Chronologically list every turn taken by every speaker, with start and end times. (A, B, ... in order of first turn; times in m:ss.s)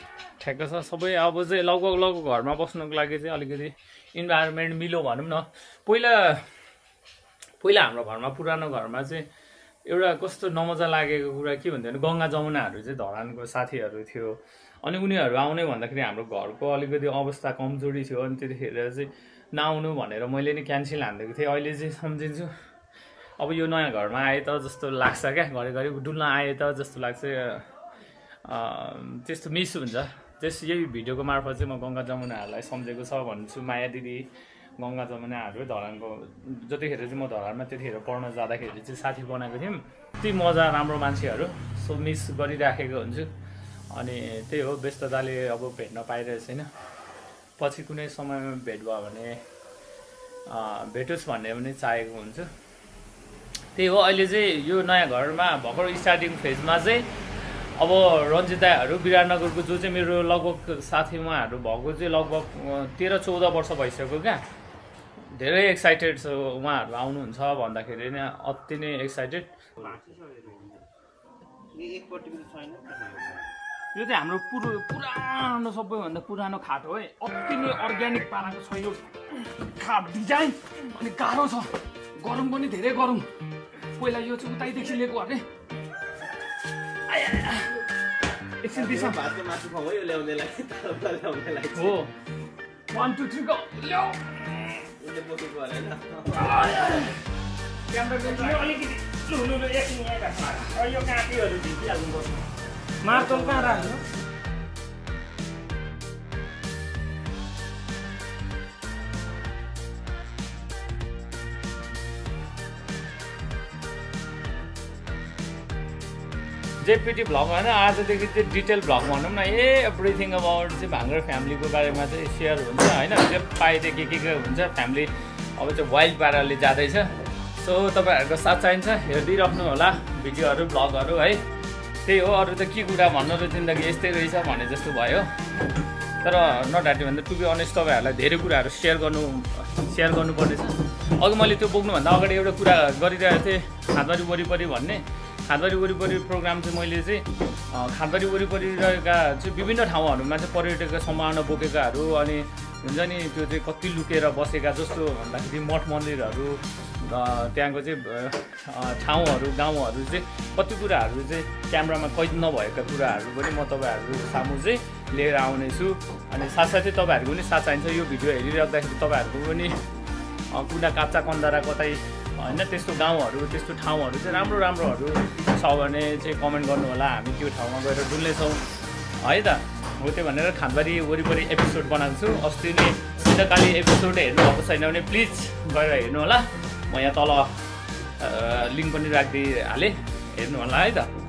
0:00.4-0:06.5 A
0:07.6-0:09.2 A
0:09.9-0:22.5 A
0:23.4-0:27.7 A
0:28.4-0:43.3 A
0:43.9-0:46.7 A
0:47.6-0:49.4 A
0:50.5-0:52.5 A
0:53.8-1:04.4 A
1:05.3-1:09.5 A
1:09.8-1:10.8 B
1:11.7-1:13.5 B
1:13.9-1:23.3 A
1:23.9-1:25.5 A
1:27.1-1:27.8 A
1:28.6-1:29.2 A
1:28.7-1:32.0 B
1:31.7-1:32.1 A
1:32.9-1:34.9 A
1:35.0-1:36.7 B
1:36.3-1:37.2 A
1:37.9-1:42.3 A
1:43.0-1:44.0 A
1:43.1-1:44.0 B
1:56.8-2:11.4 A
2:12.0-2:15.3 A
2:16.2-2:49.8 A
2:50.5-2:58.6 A
2:59.2-3:11.1 A